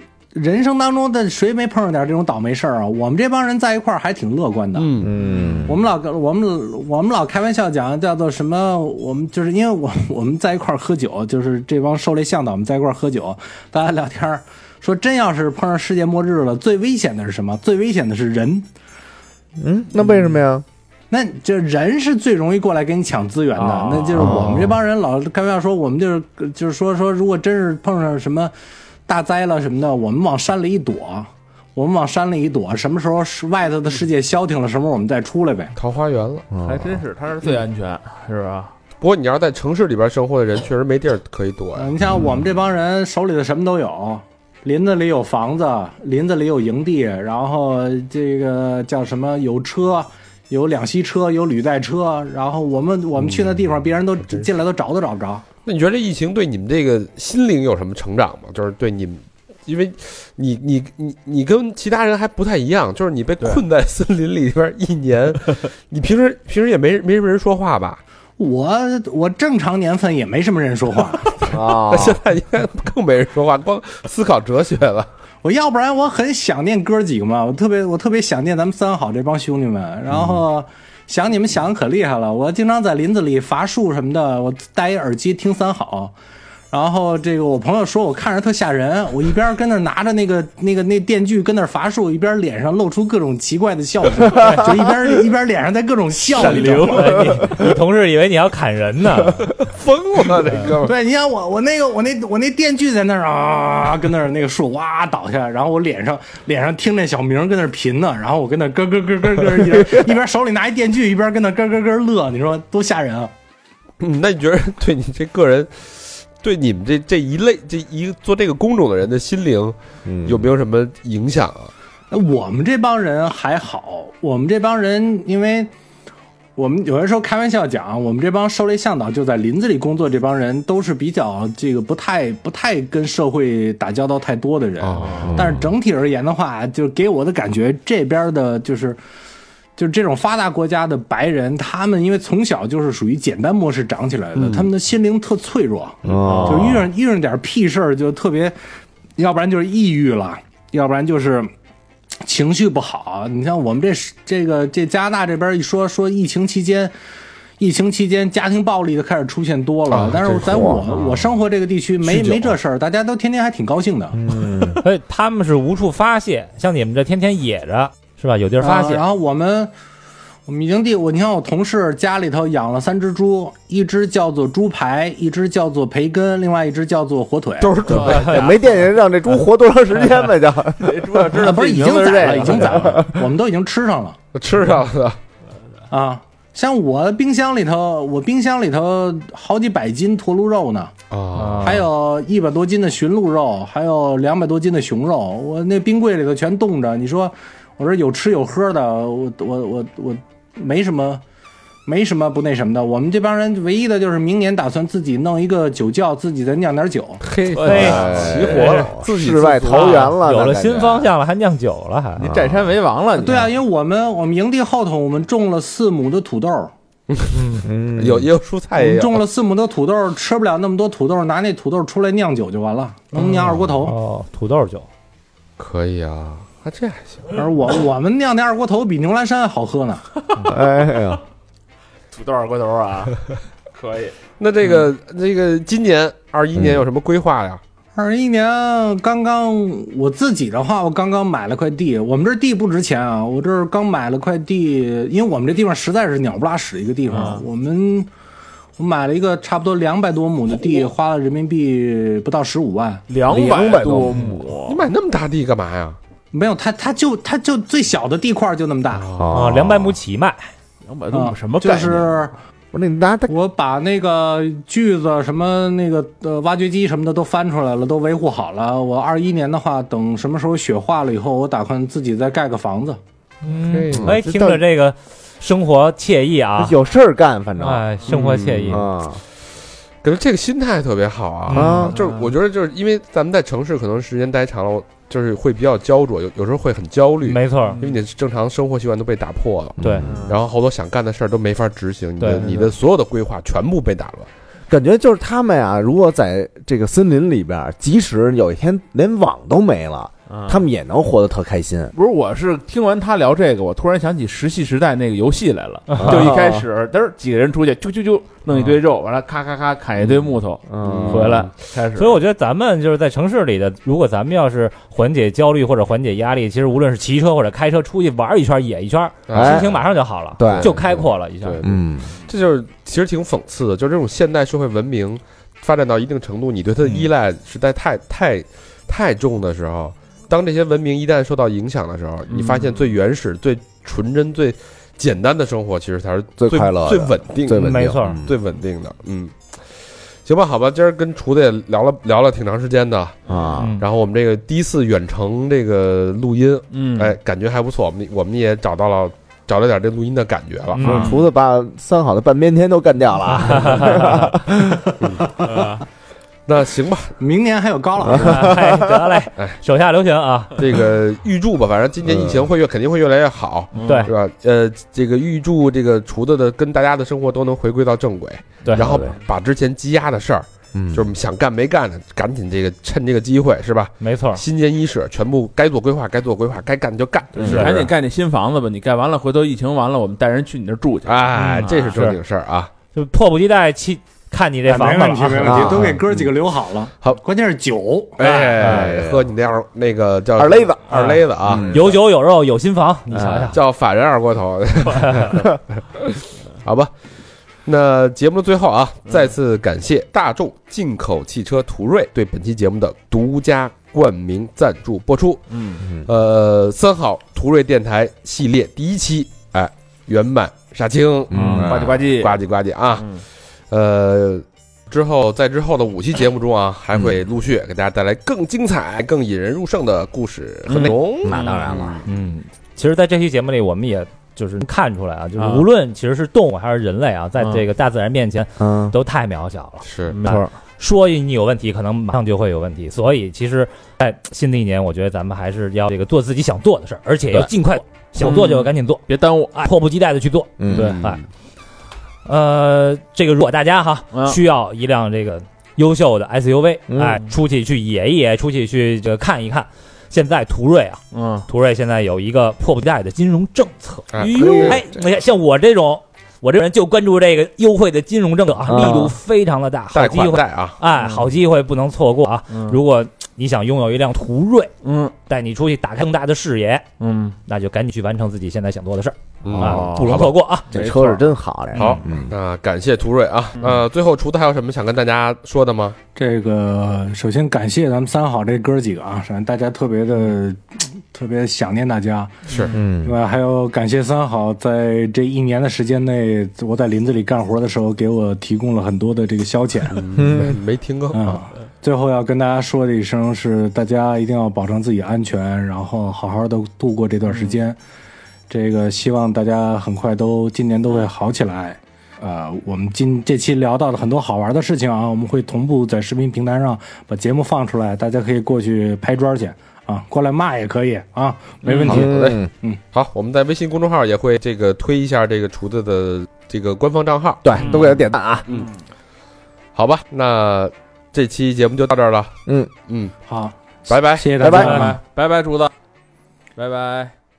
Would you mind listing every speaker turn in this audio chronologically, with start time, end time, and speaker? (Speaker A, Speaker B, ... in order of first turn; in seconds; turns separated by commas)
Speaker A: 0.3-5.0, Speaker B: 4.7-5.1, Speaker C: 5.0-5.8, Speaker A: 5.6-18.7, Speaker C: 19.6-20.6, Speaker A: 21.1-28.5, Speaker D: 23.6-24.3, Speaker C: 24.2-24.8, Speaker A: 29.1-35.8, Speaker B: 35.8-36.5, Speaker C: 36.5-37.0, Speaker D: 36.6-38.7, Speaker B: 39.0-41.9, Speaker A: 41.8-55.5, Speaker B: 53.2-53.6, Speaker B: 55.6-68.0, Speaker A: 68.4-71.5, Speaker B: 71.4-75.1, Speaker C: 71.5-72.2, Speaker A: 75.4-86.1, Speaker A: 86.7-97.2, Speaker E: 94.4-94.7, Speaker D: 96.3-97.5, Speaker B: 96.4-96.9, Speaker E: 96.8-99.5, Speaker B: 99.6-100.9, Speaker A: 100.8-113.3, Speaker C: 109.6-110.1, Speaker B: 114.0-121.7, Speaker C: 120.0-120.5, Speaker A: 122.1-125.7, Speaker A: 126.6-139.0, Speaker B: 134.8-135.7, Speaker D: 135.0-135.4, Speaker C: 135.3-135.7, Speaker A: 139.8-148.6, Speaker B: 144.3-144.7, Speaker C: 146.1-146.8, Speaker D: 146.2-146.8, Speaker A: 149.2-151.5, Speaker A: 152.2-156.9, Speaker A: 157.6-164.2, Speaker B: 159.9-160.6, Speaker C: 160.2-161.0, Speaker C: 164.1-164.8, Speaker E: 164.8-169.0, Speaker A: 168.6-169.7, Speaker A: 170.5-177.8, Speaker B: 177.6-178.4, Speaker D: 177.9-178.4, Speaker C: 177.9-181.1, Speaker E: 177.9-178.6, Speaker D: 180.8-183.0, Speaker A: 181.3-184.2, Speaker C: 182.6-183.3, Speaker B: 184.3-185.2, Speaker A: 185.9-190.9, Speaker B: 191.1-191.9, Speaker E: 191.3-191.9, Speaker A: 191.6-201.2, Speaker A: 201.9-207.3, Speaker B: 207.2-210.1, Speaker D: 207.5-208.9, Speaker E: 207.6-208.1, Speaker C: 207.8-211.1, Speaker D: 209.7-210.1, Speaker E: 209.7-212.3, Speaker D: 212.2-213.5, Speaker C: 212.3-212.8, Speaker A: 213.2-216.7, Speaker B: 217.1-219.2, Speaker E: 217.3-217.7, Speaker C: 217.6-218.3, Speaker A: 218.8-223.9, Speaker E: 223.8-224.9, Speaker B: 225.6-227.3, Speaker A: 227.3-230.1, Speaker C: 230.4-231.2, Speaker D: 232.1-234.2, Speaker B: 234.4-237.6, Speaker C: 236.6-236.8, Speaker A: 238.0-248.1, Speaker D: 247.1-247.4, Speaker A: 248.8-253.1, Speaker D: 253.1-254.8, Speaker C: 253.3-254.4, Speaker B: 254.7-256.0, Speaker A: 256.3-259.1, Speaker B: 258.9-259.5, Speaker C: 259.2-259.9, Speaker E: 259.3-260.5, Speaker D: 260.9-262.1, Speaker A: 261.1-262.4, Speaker C: 262.7-263.3, Speaker A: 263.3-273.0, Speaker E: 273.4-276.8, Speaker B: 273.7-274.1, Speaker C: 273.9-274.6, Speaker C: 276.6-277.9, Speaker E: 277.6-278.9, Speaker B: 278.1-278.8, Speaker C: 278.7-279.2, Speaker B: 280.0-294.3, Speaker E: 281.5-281.9, Speaker C: 281.5-282.0, Speaker D: 281.9-282.3, Speaker E: 287.2-287.8, Speaker D: 287.7-288.0, Speaker C: 289.8-290.2, Speaker E: 289.8-290.1, Speaker D: 290.1-290.4, Speaker E: 292.2-292.5, Speaker D: 292.4-292.7, Speaker C: 294.7-301.9, Speaker D: 300.3-300.6, Speaker D: 301.9-312.2, Speaker E: 305.9-306.4, Speaker C: 306.0-306.7, Speaker C: 310.7-311.4, Speaker B: 310.8-311.5, Speaker E: 311.9-321.6, Speaker B: 319.3-319.8, Speaker C: 319.3-319.8, Speaker C: 320.4-320.8, Speaker B: 320.4-339.6, Speaker C: 321.6-322.1, Speaker D: 332.3-332.7, Speaker C: 336.4-338.3, Speaker E: 337.6-338.2, Speaker B: 340.2-343.2, Speaker C: 343.3-343.8, Speaker E: 343.6-343.9, Speaker B: 343.8-351.2, Speaker D: 346.7-347.2, Speaker E: 350.8-351.1, Speaker C: 350.8-354.9, Speaker E: 353.5-354.3, Speaker B: 355.0-355.3, Speaker D: 355.4-355.8, Speaker B: 356.5-357.1, Speaker A: 357.2-358.6, Speaker C: 358.1-358.9, Speaker E: 358.1-360.6, Speaker B: 360.6-377.8, Speaker C: 362.1-362.5, Speaker D: 363.8-364.1, Speaker E: 363.8-364.1, Speaker C: 368.7-369.2, Speaker C: 370.7-371.1, Speaker E: 374.0-374.4, Speaker C: 377.4-377.8, Speaker D: 377.4-382.0, Speaker B: 381.1-382.7, Speaker E: 381.4-382.2, Speaker E: 382.9-385.7, Speaker A: 384.7-388.2, Speaker C: 385.4-386.1, Speaker B: 388.2-391.9, Speaker E: 388.2-389.0, Speaker C: 388.6-389.3, Speaker C: 390.4-391.8, Speaker E: 390.9-393.6, Speaker C: 393.1-393.5, Speaker B: 393.5-396.9, Speaker E: 394.9-395.4, Speaker B: 397.6-422.0, Speaker D: 405.5-405.9, Speaker C: 405.8-406.1, Speaker C: 411.3-412.0, Speaker D: 411.4-412.4, Speaker D: 412.9-413.2, Speaker D: 420.7-421.9, Speaker C: 421.2-422.0, Speaker E: 422.1-441.2, Speaker D: 425.4-425.7, Speaker C: 428.6-428.9, Speaker B: 429.8-430.2, Speaker D: 430.1-430.5, Speaker D: 438.2-439.7, Speaker C: 440.6-440.9, Speaker D: 440.7-441.1, Speaker E: 442.2-464.7, Speaker D: 444.1-444.4, Speaker C: 446.9-447.2, Speaker D: 451.1-451.5, Speaker B: 454.1-454.9, Speaker C: 454.3-454.9, Speaker C: 458.7-459.1, Speaker D: 458.8-459.1, Speaker B: 459.9-460.8, Speaker D: 460.9-461.3, Speaker D: 462.5-462.8, Speaker D: 464.8-465.1, Speaker E: 465.3-466.9, Speaker D: 467.0-467.4, Speaker E: 467.5-470.7, Speaker B: 469.4-470.4, Speaker D: 469.5-472.0, Speaker C: 470.7-472.4, Speaker B: 471.8-476.0, Speaker A: 476.1-490.0, Speaker B: 482.5-482.7, Speaker C: 482.7-483.2, Speaker B: 489.9-491.4, Speaker C: 490.1-490.6, Speaker A: 491.1-497.8, Speaker A: 498.5-512.1, Speaker D: 511.6-512.0, Speaker B: 511.9-512.4, Speaker C: 511.9-512.5, Speaker B: 512.9-517.4, Speaker C: 517.4-518.5, Speaker E: 517.5-517.9, Speaker D: 518.5-518.8, Speaker B: 519.8-522.3, Speaker B: 522.9-523.1, Speaker A: 523.3-525.0, Speaker B: 523.9-524.3, Speaker C: 524.4-524.9, Speaker D: 524.4-525.7, Speaker D: 526.6-527.1